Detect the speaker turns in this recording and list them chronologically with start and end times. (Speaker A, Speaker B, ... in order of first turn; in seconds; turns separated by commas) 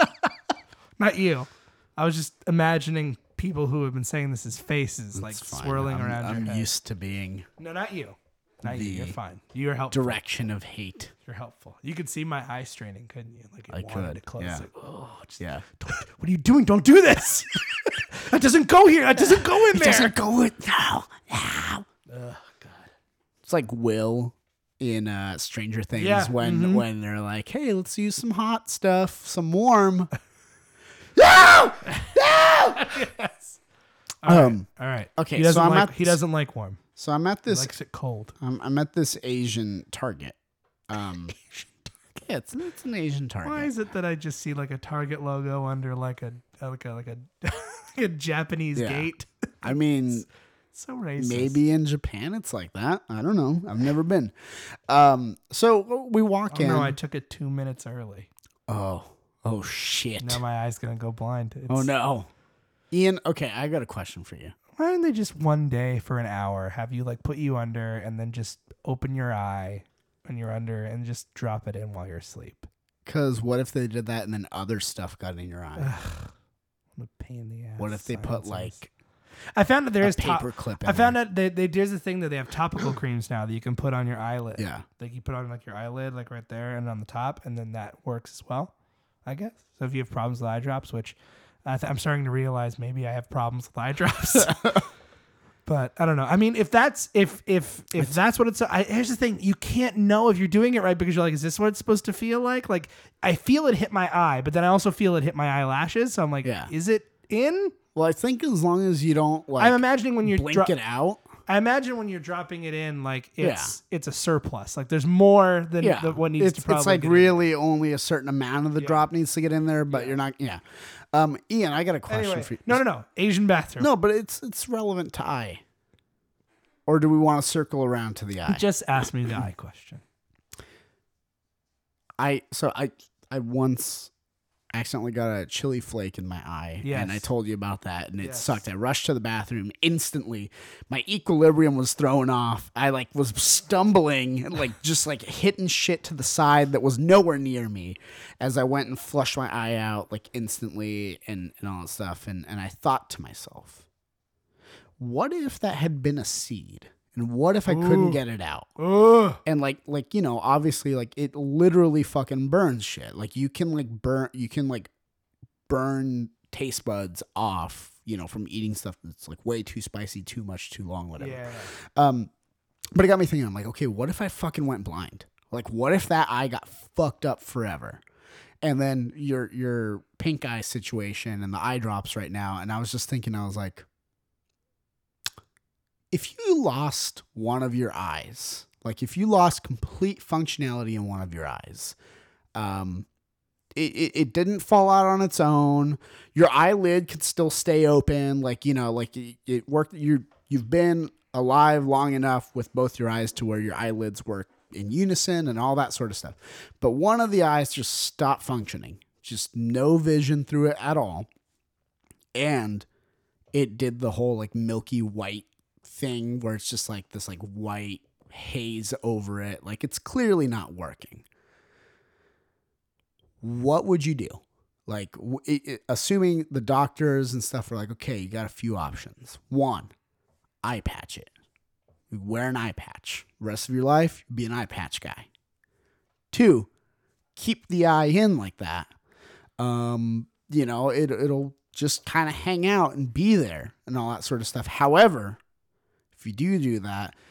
Speaker A: 1.0-6.7, Speaker B: 5.1-7.5, Speaker A: 7.6-10.2, Speaker B: 8.6-9.2, Speaker B: 9.9-11.1, Speaker A: 11.3-20.1, Speaker B: 13.7-14.7, Speaker B: 15.4-15.7, Speaker B: 19.1-21.9, Speaker A: 22.1-22.9, Speaker B: 23.4-30.1, Speaker A: 25.9-26.9, Speaker B: 31.2-33.0, Speaker A: 31.8-32.1, Speaker A: 32.7-33.6, Speaker A: 34.2-36.8, Speaker B: 34.3-36.2, Speaker B: 37.0-37.7, Speaker A: 37.5-38.3, Speaker B: 38.4-40.4, Speaker B: 40.9-41.4, Speaker A: 41.4-41.7, Speaker B: 42.2-43.7, Speaker A: 43.4-49.8, Speaker B: 48.8-49.1, Speaker B: 49.6-50.3, Speaker A: 50.7-51.6, Speaker B: 51.2-54.3, Speaker B: 54.9-57.0, Speaker A: 56.5-58.3, Speaker B: 58.7-60.4, Speaker A: 60.2-61.9, Speaker B: 61.7-62.3, Speaker B: 62.9-64.5, Speaker A: 64.8-72.7, Speaker B: 73.0-75.9, Speaker A: 75.8-76.3, Speaker A: 77.0-78.8, Speaker B: 77.8-78.9, Speaker A: 79.6-88.7, Speaker B: 80.0-81.2, Speaker B: 84.6-84.8, Speaker A: 89.2-94.8, Speaker A: 95.7-107.8, Speaker B: 106.4-106.7, Speaker B: 108.0-111.2, Speaker A: 109.6-110.7, Speaker A: 111.5-117.4, Speaker B: 113.4-113.7, Speaker B: 115.8-120.6, Speaker A: 118.8-119.1, Speaker A: 119.9-120.2, Speaker B: 121.1-122.8, Speaker A: 122.1-123.9, Speaker B: 123.8-125.6, Speaker B: 126.9-128.7, Speaker A: 128.5-130.0, Speaker B: 132.2-134.1, Speaker B: 134.7-153.8, Speaker A: 136.8-137.3, Speaker A: 138.2-138.6, Speaker B: 155.0-158.7, Speaker A: 157.7-158.2, Speaker A: 158.8-159.4, Speaker B: 159.4-164.9, Speaker B: 165.7-172.3, Speaker A: 171.2-171.7, Speaker B: 172.9-178.0, Speaker B: 178.6-183.9, Speaker B: 186.1-192.0, Speaker B: 192.6-193.1, Speaker B: 193.8-211.3, Speaker B: 212.3-212.9, Speaker B: 213.5-221.2, Speaker B: 223.4-229.9, Speaker B: 230.6-231.3, Speaker B: 232.1-235.3, Speaker B: 236.3-236.7, Speaker B: 237.4-238.9, Speaker B: 239.6-245.4, Speaker B: 246.2-247.2